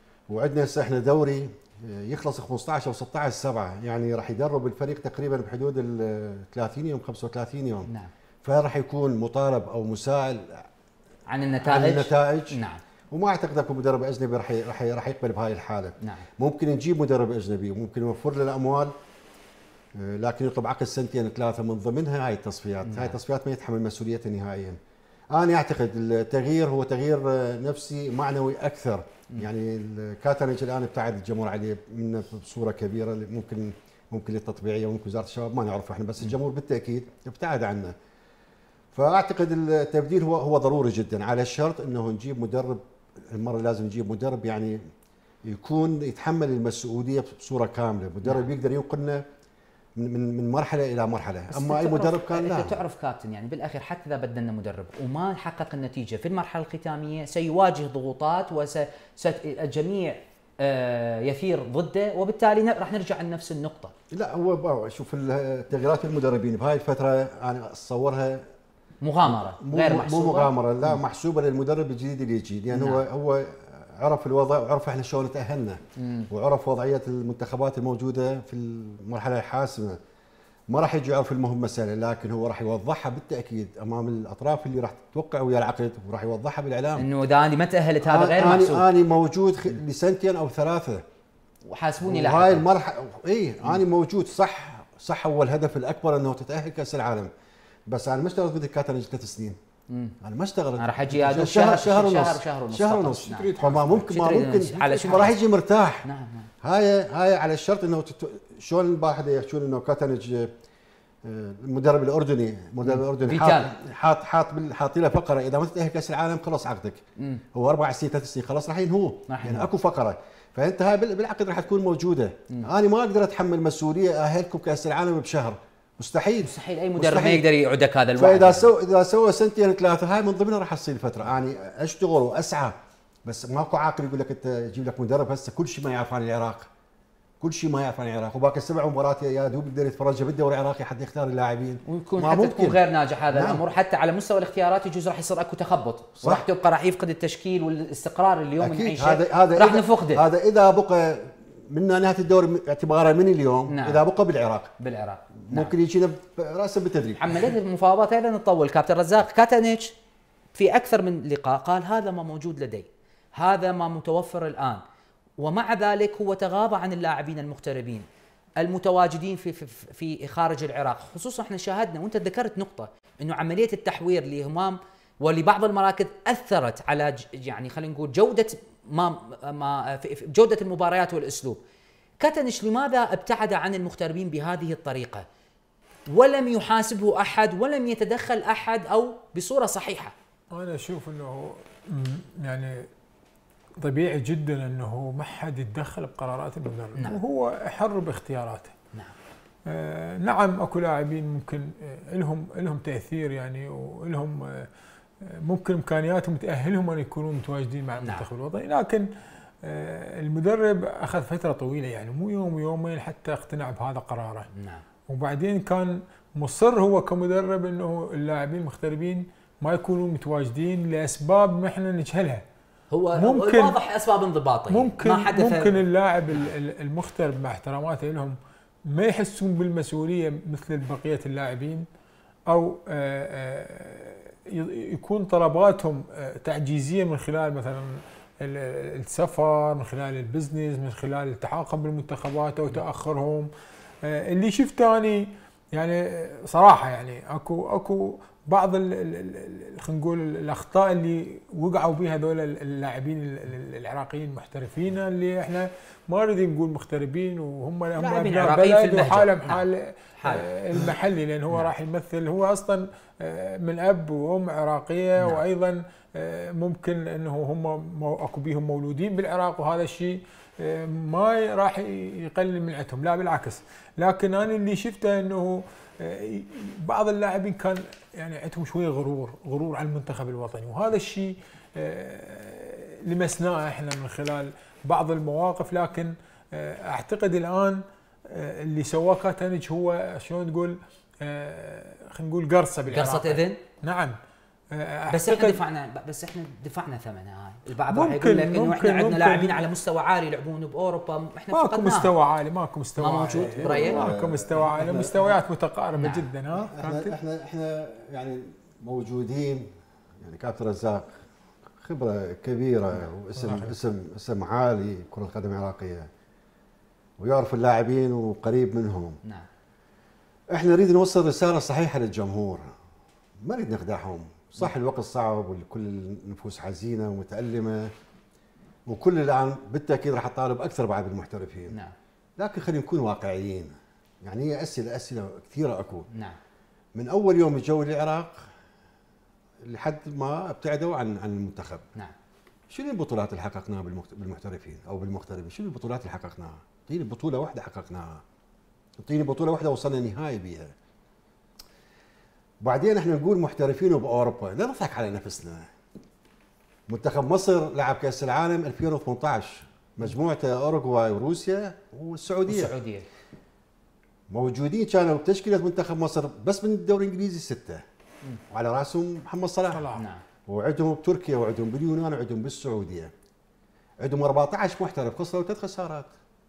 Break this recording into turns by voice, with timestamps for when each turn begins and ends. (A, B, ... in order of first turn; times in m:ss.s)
0:00.3-0:07.9 A
0:08.4-0:10.6 A
0:11.3-0:12.8 B
0:11.6-0:12.6 A
0:13.1-0:18.9 A
0:20.0-0:24.8 A
0:22.8-0:23.2 B
0:25.3-0:37.9 A
0:38.9-0:44.9 A
0:45.4-0:49.2 A
0:50.0-0:52.8 A
0:51.5-1:03.9 B
1:04.1-1:08.4 A
1:09.0-1:11.0 B
1:09.2-1:20.0 A
1:12.7-1:13.0 B
1:16.0-1:16.3 B
1:20.7-1:27.1 A
1:27.0-1:28.8 B
1:28.0-1:31.0 A
1:31.7-1:32.6 B
1:32.0-1:37.3 A
1:37.9-1:39.6 A
1:39.9-1:40.1 B
1:40.2-1:46.0 A
1:40.8-1:45.4 B
1:43.3-1:44.0 C
1:46.0-1:46.5 B
1:46.6-1:50.5 A
1:51.2-1:57.0 A
1:52.8-1:53.7 B
1:57.5-2:07.4 A
1:59.3-1:59.6 B
2:06.4-2:08.7 B
2:08.2-2:16.7 A
2:17.4-2:22.8 A
2:21.8-2:30.2 B
2:23.3-2:23.6 A
2:28.6-2:34.7 A
2:33.7-2:34.0 B
2:34.8-2:35.7 B
2:35.5-2:37.4 A
2:37.2-2:39.9 B
2:40.6-2:44.8 B
2:45.4-2:48.0 B
2:48.6-3:01.6 B
3:02.2-3:05.2 B
3:06.1-3:10.1 B
3:10.5-3:12.8 C
3:13.8-3:18.7 C
3:19.7-3:24.7 C
3:25.2-3:29.1 C
3:29.6-3:34.5 C
3:34.5-3:34.8 B
3:35.1-3:42.4 C
3:42.9-3:45.7 B
3:43.2-3:43.7 C
3:44.7-3:48.4 C
3:48.9-3:51.8 C
3:52.5-4:03.5 C
4:04.0-4:54.2 C
4:18.0-4:19.6 B
4:20.2-4:20.4 B
4:52.9-4:53.6 B
4:54.7-4:55.6 C
4:55.1-5:02.1 B
4:57.9-4:59.6 C
5:01.5-5:07.1 C
5:03.0-5:04.0 B
5:03.4-5:05.4 A
5:06.0-5:06.2 B
5:06.5-5:09.7 A
5:10.2-5:11.2 A
5:11.8-5:16.1 A
5:13.4-5:13.7 C
5:17.2-5:19.2 A
5:20.5-5:22.7 A
5:23.4-5:27.9 A
5:28.9-5:31.8 A
5:32.4-5:36.1 A
5:36.9-5:38.5 A
5:39.6-5:41.8 A
5:42.7-5:48.2 A
5:49.0-5:50.7 A
5:52.6-5:55.7 A
5:56.9-6:02.7 A
6:02.5-6:03.0 B
6:04.3-6:07.8 A
6:08.5-6:09.9 A
6:09.7-6:10.0 C
6:10.0-6:10.2 B
6:10.5-6:13.1 A
6:14.0-6:16.1 A